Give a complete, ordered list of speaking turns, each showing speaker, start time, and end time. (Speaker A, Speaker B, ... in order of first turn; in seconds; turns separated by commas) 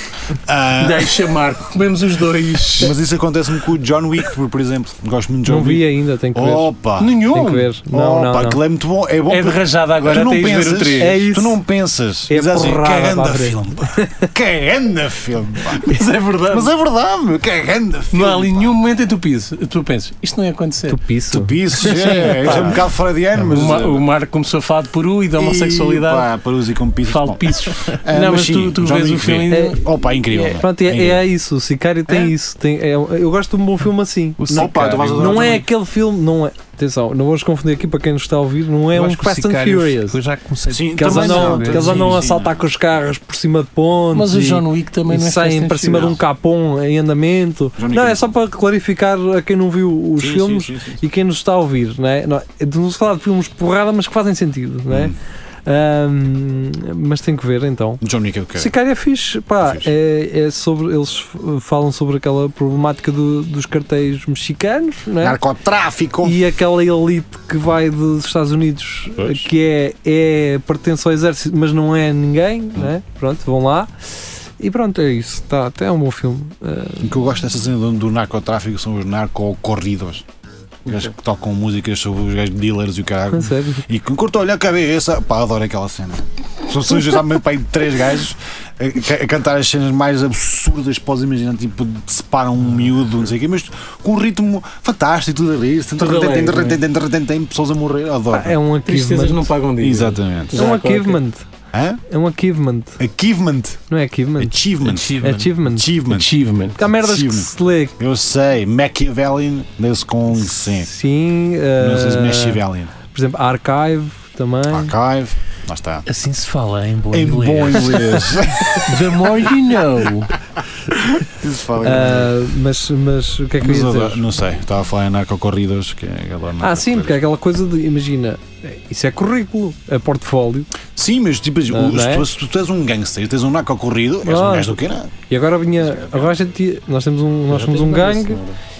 Speaker A: 0.3-1.2, Speaker B: 0.8-3.0, Speaker A: 2.8-7.3, Speaker C: 5.5-6.7, Speaker B: 7.0-7.7, Speaker C: 7.3-8.6, Speaker A: 7.9-18.7, Speaker B: 9.3-11.2, Speaker C: 11.0-11.6, Speaker C: 12.3-14.3, Speaker B: 15.7-16.7, Speaker B: 18.1-21.0, Speaker C: 20.9-22.8, Speaker A: 21.3-24.0, Speaker B: 21.8-22.8, Speaker B: 23.5-26.3, Speaker A: 25.3-31.2, Speaker B: 27.1-30.6, Speaker C: 29.5-29.8, Speaker C: 30.5-40.2, Speaker A: 32.1-32.3, Speaker D: 34.4-35.5, Speaker A: 34.5-35.7, Speaker D: 38.9-42.2, Speaker A: 40.7-42.7, Speaker C: 40.9-55.1, Speaker B: 44.1-46.2, Speaker A: 47.8-48.3, Speaker A: 50.2-51.0, Speaker A: 54.9-55.2, Speaker C: 55.6-58.0, Speaker A: 58.0-58.7, Speaker C: 58.5-65.4, Speaker A: 59.6-59.9, Speaker A: 65.2-66.4, Speaker C: 66.2-73.9, Speaker A: 69.2-69.4, Speaker C: 74.6-77.1, Speaker A: 77.0-80.2, Speaker A: 80.8-98.6, Speaker C: 83.3-83.8, Speaker B: 96.0-96.8, Speaker C: 98.3-99.5, Speaker B: 98.9-101.2, Speaker A: 99.8-100.6, Speaker C: 100.5-101.5, Speaker A: 101.7-102.0, Speaker C: 102.1-103.0, Speaker A: 103.0-103.8, Speaker C: 103.9-104.6, Speaker A: 104.4-110.9, Speaker D: 104.8-105.5, Speaker C: 105.2-106.0, Speaker B: 106.1-106.8, Speaker C: 106.8-108.0, Speaker C: 110.4-114.9, Speaker A: 111.8-112.9, Speaker A: 114.7-116.0, Speaker D: 116.0-118.4, Speaker A: 117.1-119.3, Speaker B: 118.8-120.3, Speaker A: 121.2-122.4, Speaker C: 121.8-124.2, Speaker A: 123.6-127.2, Speaker C: 126.6-130.7, Speaker A: 130.9-135.1, Speaker C: 131.7-132.3, Speaker C: 134.2-138.4, Speaker A: 135.7-136.4, Speaker B: 137.5-138.6